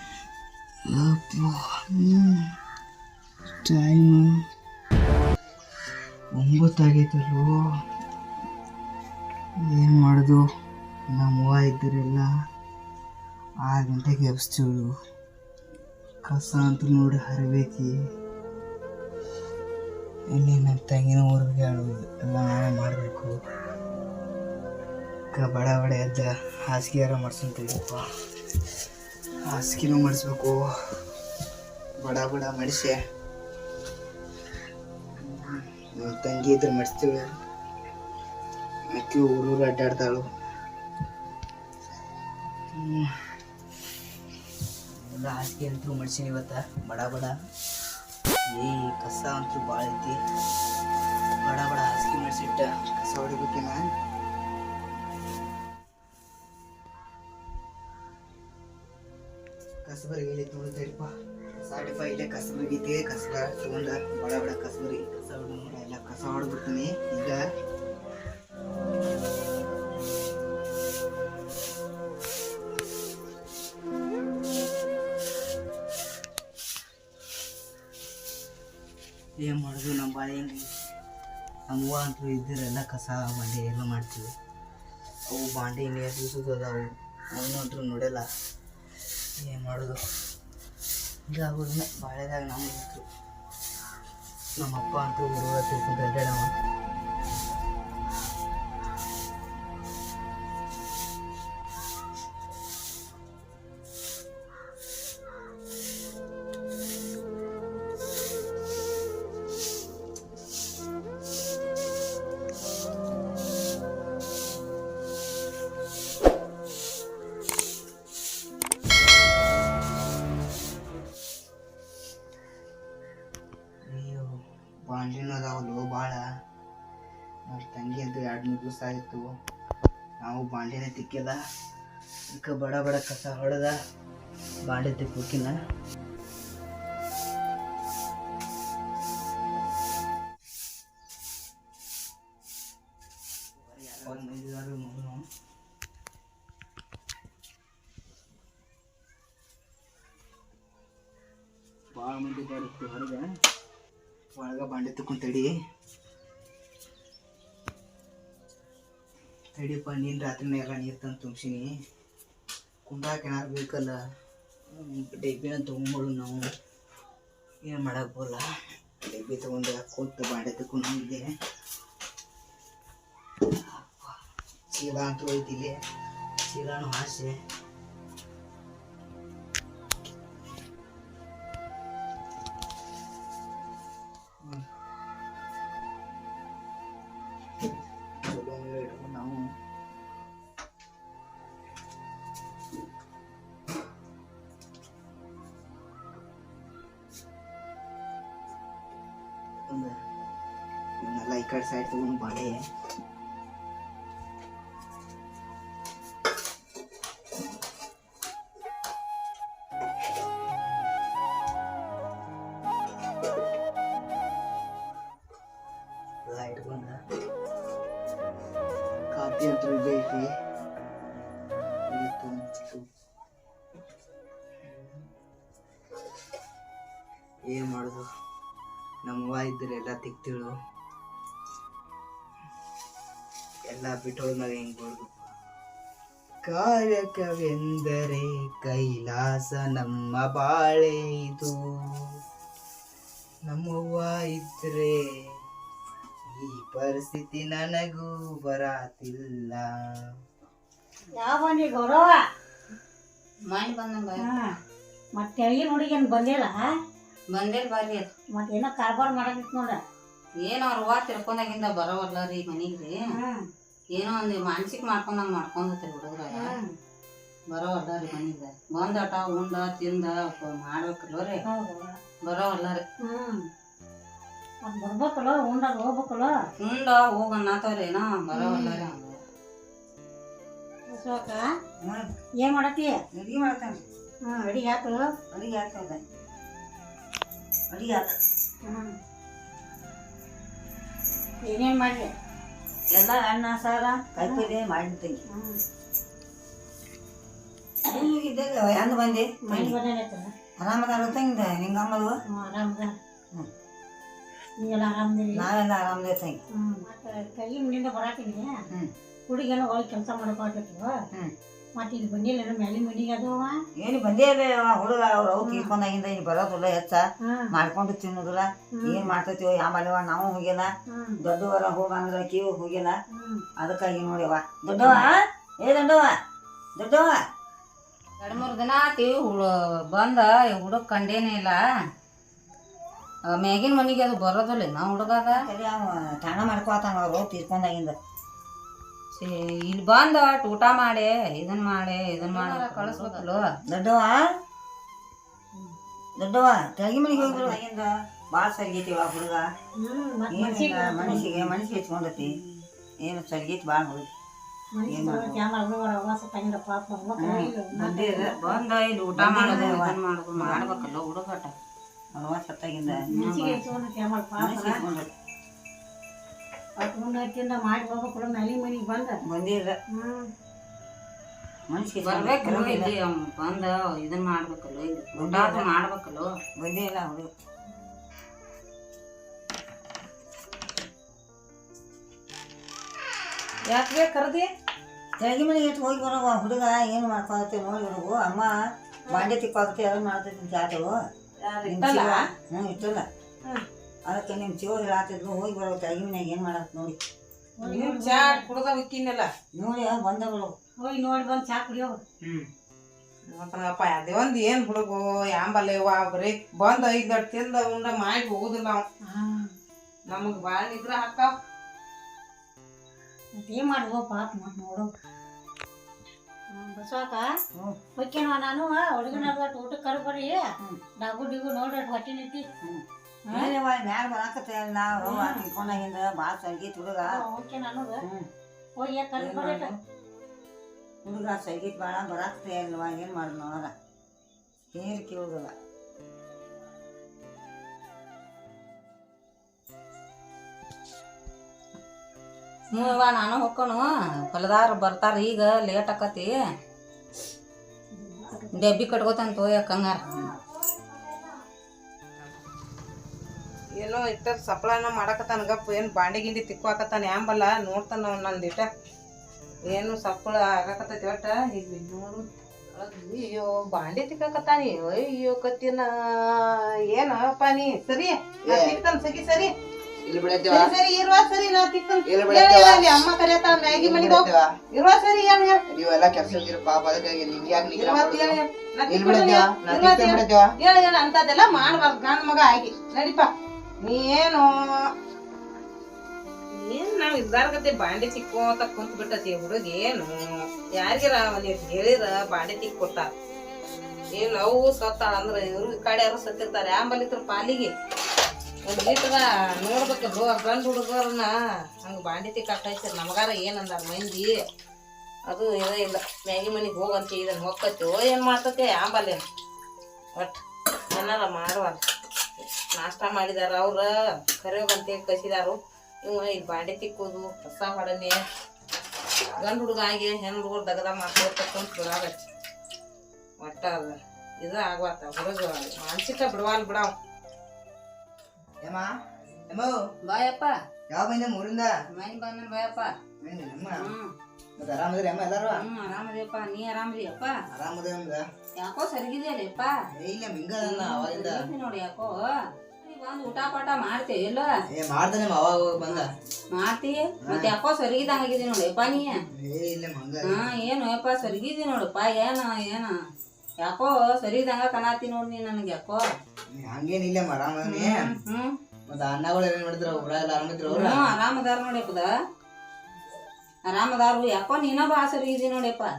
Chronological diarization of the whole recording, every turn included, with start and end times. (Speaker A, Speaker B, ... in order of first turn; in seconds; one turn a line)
Speaker A: 0.9-2.4
Speaker A: 3.6-4.3
Speaker A: 6.3-7.5
Speaker A: 9.6-10.4
Speaker A: 11.1-12.3
Speaker A: 13.6-14.9
Speaker A: 16.2-17.9
Speaker A: 20.3-23.3
Speaker A: 25.3-28.0
Speaker A: 29.4-30.6
Speaker A: 32.0-33.0
Speaker A: 35.2-37.2
Speaker A: 38.9-40.2
Speaker A: 42.7-43.1
Speaker A: 45.0-47.3
Speaker A: 48.5-50.2
Speaker A: 51.4-53.9
Speaker A: 59.8-67.4
Speaker A: 79.4-80.7
Speaker A: 81.7-84.3
Speaker A: 85.3-88.2
Speaker A: 89.4-90.0
Speaker A: 91.3-93.0
Speaker A: 94.6-96.5
Speaker A: 123.8-124.3
Speaker A: 124.9-126.2
Speaker A: 127.5-129.2
Speaker A: 130.2-131.4
Speaker A: 132.3-133.7
Speaker A: 134.7-135.5
Speaker A: 143.6-145.2
Speaker A: 151.9-153.3
Speaker A: 154.3-155.5
Speaker A: 159.5-161.7
Speaker A: 162.8-164.0
Speaker A: 164.7-166.4
Speaker A: 167.6-168.4
Speaker A: 169.0-171.3
Speaker A: 173.4-174.2
Speaker A: 174.7-175.8
Speaker A: 176.5-177.4
Speaker A: 188.2-189.5
Speaker A: 199.7-199.9
Speaker A: 201.0-202.6
Speaker A: 210.5-210.8
Speaker A: 216.2-217.0
Speaker A: 219.1-220.2
Speaker A: 221.9-222.8
Speaker A: 224.6-225.0
Speaker A: 227.4-228.0
Speaker A: 229.0-230.5
Speaker A: 233.7-235.3
Speaker A: 236.4-241.6
Speaker A: 243.5-244.9
Speaker A: 246.2-249.6
Speaker B: 251.1-252.2
Speaker C: 253.5-254.3
Speaker B: 254.2-254.5
Speaker B: 255.2-256.6
Speaker C: 257.3-258.1
Speaker B: 258.3-259.8
Speaker C: 260.4-262.9
Speaker B: 263.1-263.4
Speaker C: 263.9-266.6
Speaker B: 266.3-266.7
Speaker C: 267.5-271.4
Speaker B: 271.5-272.0
Speaker C: 272.2-272.8
Speaker B: 273.0-273.5
Speaker B: 274.6-276.4
Speaker C: 276.6-279.2
Speaker B: 278.3-278.8
Speaker B: 280.9-281.5
Speaker D: 281.8-282.1
Speaker B: 282.4-283.0
Speaker D: 283.1-283.8
Speaker B: 284.2-285.1
Speaker D: 285.3-286.0
Speaker D: 287.7-288.1
Speaker B: 288.7-288.9
Speaker B: 291.4-292.1
Speaker D: 292.9-295.2
Speaker B: 294.2-294.5
Speaker B: 295.3-295.6
Speaker D: 297.8-299.8
Speaker B: 299.4-300.3
Speaker D: 300.6-302.1
Speaker B: 302.3-302.9
Speaker B: 304.6-305.5
Speaker D: 305.3-306.4
Speaker B: 306.5-308.5
Speaker B: 309.3-310.9
Speaker B: 311.8-313.6
Speaker D: 313.8-322.9
Speaker B: 315.4-315.7
Speaker B: 317.2-317.5
Speaker B: 318.7-319.1
Speaker B: 320.9-321.2
Speaker B: 323.1-323.4
Speaker D: 323.6-326.1
Speaker D: 326.8-327.2
Speaker C: 328.2-331.6
Speaker C: 333.3-335.4
Speaker D: 335.3-337.9
Speaker C: 339.1-343.4
Speaker E: 342.4-343.2
Speaker D: 343.7-344.3
Speaker D: 346.2-349.4
Speaker B: 349.8-351.5
Speaker D: 350.3-352.4
Speaker B: 352.2-352.6
Speaker D: 353.0-354.1
Speaker B: 354.7-358.6
Speaker D: 354.9-355.4
Speaker D: 357.2-358.3
Speaker C: 358.2-361.5
Speaker D: 359.1-360.6
Speaker D: 362.1-363.1
Speaker C: 363.0-363.6
Speaker B: 363.1-364.8
Speaker D: 364.4-365.1
Speaker B: 366.8-369.2
Speaker D: 369.3-369.8
Speaker B: 369.9-370.3
Speaker D: 371.7-372.9
Speaker C: 372.0-376.3
Speaker D: 375.1-375.7
Speaker D: 376.6-377.3
Speaker E: 383.7-384.5
Speaker D: 385.2-388.5
Speaker D: 389.1-390.9
Speaker E: 391.4-392.1
Speaker D: 391.6-393.1
Speaker C: 391.8-392.1
Speaker D: 394.1-397.0
Speaker B: 397.6-398.5
Speaker E: 397.6-399.3
Speaker D: 399.5-400.5
Speaker B: 400.8-402.0
Speaker E: 403.3-408.9
Speaker B: 409.1-409.5
Speaker E: 410.1-411.3
Speaker B: 413.4-414.9
Speaker B: 416.5-417.3
Speaker B: 417.9-420.5
Speaker B: 421.0-422.4
Speaker D: 422.6-427.2
Speaker B: 423.3-423.5
Speaker B: 425.0-425.4
Speaker B: 427.1-428.0
Speaker D: 428.0-428.3
Speaker B: 428.8-429.7
Speaker D: 429.2-429.8
Speaker D: 431.0-433.7
Speaker D: 434.7-435.5
Speaker C: 442.7-446.3
Speaker B: 447.9-448.8
Speaker C: 448.6-450.3
Speaker E: 453.8-458.7
Speaker E: 459.6-469.5
Speaker A: 468.4-468.8
Speaker A: 470.0-470.7
Speaker E: 470.5-475.6
Speaker A: 472.1-473.1
Speaker A: 473.7-474.6
Speaker A: 475.7-480.5
Speaker E: 477.7-484.9
Speaker E: 486.5-493.1
Speaker E: 494.1-497.7
Speaker E: 498.6-504.4
Speaker E: 505.3-509.2
Speaker E: 510.1-511.8
Speaker E: 512.4-518.2
Speaker E: 519.4-522.3
Speaker E: 523.4-526.9
Speaker A: 528.6-528.9
Speaker A: 529.5-529.8
Speaker C: 530.1-530.5
Speaker A: 530.9-531.7
Speaker C: 531.9-532.9
Speaker A: 533.2-533.9
Speaker C: 533.8-534.1
Speaker A: 534.6-535.6
Speaker C: 535.5-537.4
Speaker A: 537.5-538.2
Speaker C: 538.6-539.7
Speaker A: 539.9-541.4
Speaker C: 540.6-542.1
Speaker C: 542.8-544.5
Speaker A: 544.7-546.1
Speaker C: 545.9-549.1
Speaker A: 547.2-547.5
Speaker A: 549.3-550.5
Speaker C: 550.2-552.9
Speaker C: 553.6-556.0
Speaker A: 556.5-558.0
Speaker C: 557.6-558.6
Speaker A: 558.9-561.1
Speaker C: 560.6-562.1
Speaker C: 563.7-565.9